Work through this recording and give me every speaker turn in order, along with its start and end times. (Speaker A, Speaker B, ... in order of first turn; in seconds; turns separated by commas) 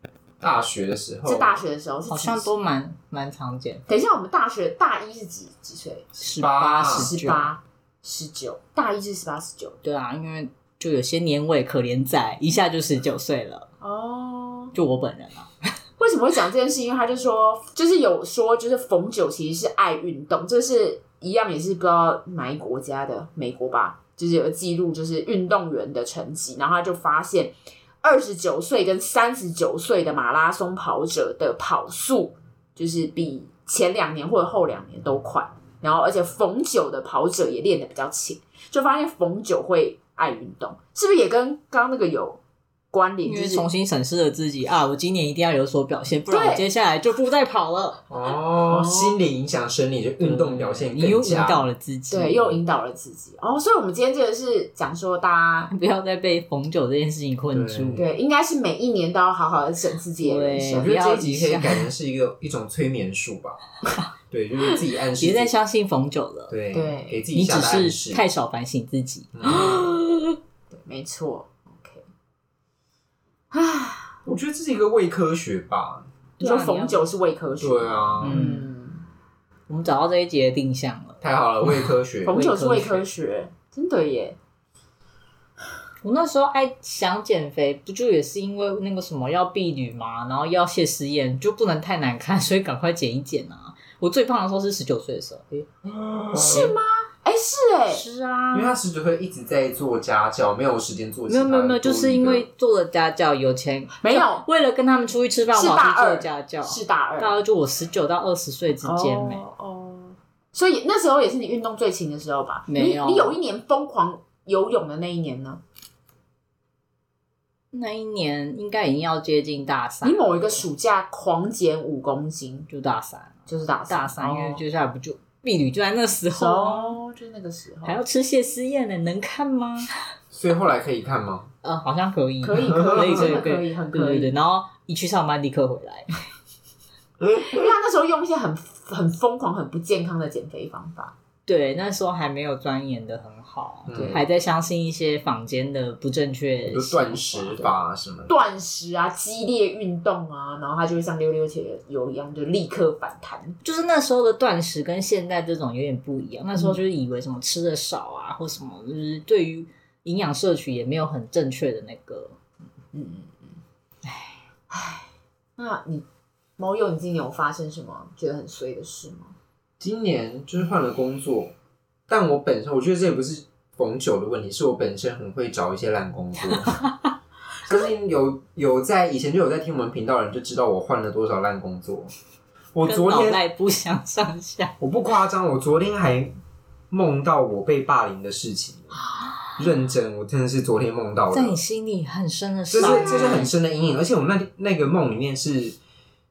Speaker A: 0.4-1.7, Speaker B: 1.2-2.5, Speaker C: 2.1-3.8, Speaker B: 3.9-6.1, Speaker C: 6.2-7.5, Speaker A: 6.4-7.1, Speaker B: 6.9-9.8, Speaker C: 9.8-13.7, Speaker B: 13.8-14.7, Speaker C: 14.7-15.5, Speaker B: 16.0-42.4, Speaker B: 42.9-43.7, Speaker C: 43.2-48.0, Speaker B: 46.3-46.6, Speaker A: 48.1-51.7, Speaker B: 48.6-49.2, Speaker C: 50.2-52.6, Speaker B: 52.1-55.7, Speaker C: 55.7-58.1, Speaker A: 57.5-58.1, Speaker B: 58.0-61.1, Speaker C: 60.2-61.9, Speaker A: 60.7-63.6, Speaker A: 64.3-65.5, Speaker C: 65.2-66.5, Speaker A: 66.5-68.2, Speaker B: 66.7-67.2, Speaker C: 67.3-70.4, Speaker A: 69.3-69.9, Speaker B: 70.7-72.0, Speaker B: 73.5-74.2, Speaker A: 74.3-76.1, Speaker C: 76.4-77.0, Speaker B: 76.4-79.0, Speaker A: 77.6-78.4, Speaker C: 78.2-78.7, Speaker C: 79.7-81.2, Speaker A: 81.2-82.4, Speaker B: 82.2-84.4, Speaker C: 82.3-83.1, Speaker C: 86.0-95.7, Speaker A: 95.8-96.8, Speaker B: 96.3-98.0, Speaker C: 97.9-98.8, Speaker A: 98.5-102.5, Speaker C: 101.3-109.4, Speaker B: 104.0-104.5, Speaker B: 105.5-107.4, Speaker B: 108.8-115.6, Speaker C: 112.7-113.4, Speaker C: 117.7-120.2, Speaker B: 120.0-122.7, Speaker C: 122.7-127.0, Speaker B: 123.5-124.6, Speaker B: 126.3-128.0, Speaker C: 127.8-129.9, Speaker A: 130.3-131.5, Speaker C: 131.6-136.1, Speaker B: 132.4-134.3, Speaker A: 132.6-133.4, Speaker A: 137.2-137.7, Speaker B: 137.4-141.2, Speaker C: 141.5-147.7, Speaker A: 143.9-144.2, Speaker B: 143.9-144.2, Speaker A: 146.7-148.3, Speaker B: 148.3-153.6, Speaker C: 153.6-162.4, Speaker B: 162.9-163.5, Speaker C: 164.1-164.4, Speaker B: 164.7-166.1, Speaker B: 166.6-169.3, Speaker A: 169.8-171.5, Speaker A: 172.1-176.8, Speaker A: 177.7-182.1, Speaker A: 182.7-183.4, Speaker C: 182.8-184.8, Speaker A: 184.8-186.3, Speaker A: 186.9-189.0, Speaker A: 189.6-191.6, Speaker C: 191.3-193.5, Speaker A: 192.7-195.8, Speaker B: 192.8-193.5